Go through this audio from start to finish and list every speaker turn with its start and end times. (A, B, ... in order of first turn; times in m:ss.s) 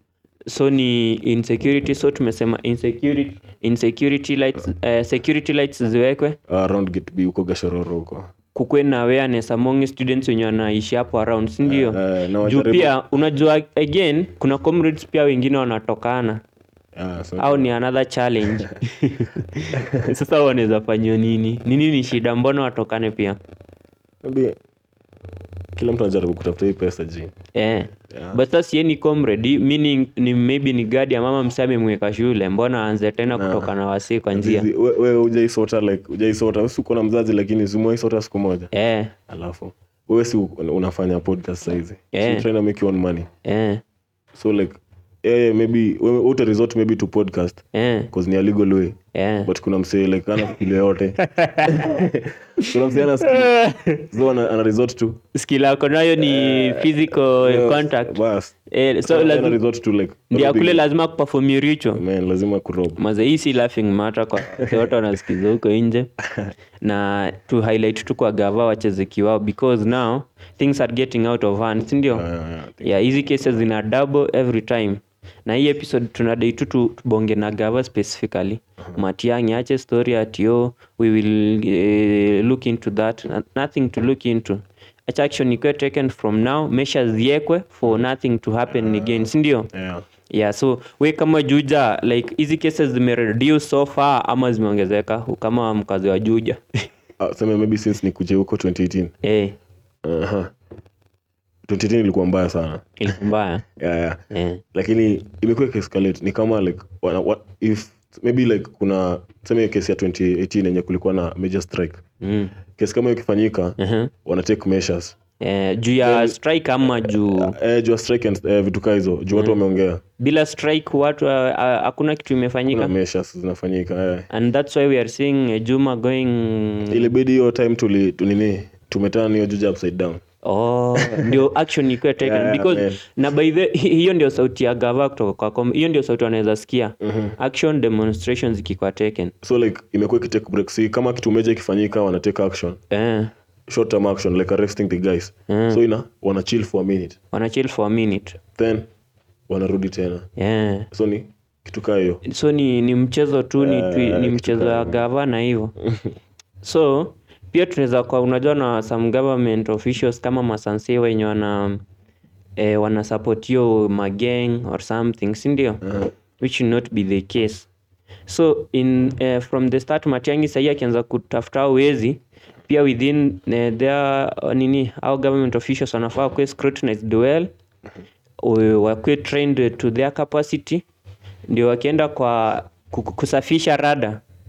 0:00.5-0:06.4 A
0:06.5-0:08.3 B
0:08.5-0:16.4 A
0:11.6-0:13.0 B
0:16.9-0:17.7 B
0:17.4-0:23.4 A
0:24.2-0:24.6 B
0:25.8-0:27.3 B
0:27.5-0:34.7 A
0:28.1-0:28.4 B
0:33.3-0:33.8 B
0:34.3-0:38.7 B
0:38.7-0:39.1 A
0:39.3-0:43.3 B
0:42.1-0:42.5 A
0:43.4-0:43.8 A
0:44.3-0:55.2 B
0:47.7-0:48.1 A
0:49.1-0:49.5 A
0:51.2-0:52.0 A
0:52.6-0:54.1 A
0:55.3-0:58.2 A
0:56.2-0:58.5 B
0:58.7-0:59.6 A
0:59.1-1:00.9 B
1:00.3-1:02.0 A
1:01.9-1:03.0 B
1:03.0-1:06.1 A
1:04.5-1:04.9 B
1:06.8-1:12.2 A
1:12.1-1:13.6 B
1:12.8-1:29.7 A
1:28.7-1:30.0 B
1:30.3-1:36.6 A
1:37.2-1:39.1 B
1:39.2-1:39.6 A
1:40.0-1:40.5 B
1:41.7-1:42.8 B
1:43.0-1:43.6 A
1:43.8-1:44.2 B
1:44.3-1:44.6 A
1:44.7-1:52.0 B
1:52.2-1:52.6 A
1:52.8-1:55.2 B
1:53.8-1:54.1 A
1:55.4-1:57.6 A
1:56.0-2:00.0 B
1:59.3-1:59.6 A
2:00.2-2:02.9 A
2:02.7-2:04.3 B
2:04.3-2:07.1 A
2:06.9-2:10.2 B
2:10.4-2:19.3 A
2:11.0-2:11.4 B
2:12.2-2:13.0 B
2:17.0-2:17.4 B
2:19.4-2:22.8 B
2:22.9-2:23.3 A
2:23.7-2:27.2 B
2:25.5-2:25.8 A
2:27.3-2:28.4 A
2:28.6-2:28.9 B
2:29.5-2:30.3 B
2:30.4-2:30.9 A
2:30.9-2:32.2 B
2:32.2-2:35.7 A
2:33.6-2:35.0 B
2:35.8-2:36.1 B
2:36.6-2:41.8 A
2:42.6-2:45.8 A
2:45.8-2:46.1 B
2:46.4-2:47.7 A
2:48.3-2:57.5 A
2:58.4-3:00.8 A
3:01.5-3:04.2 A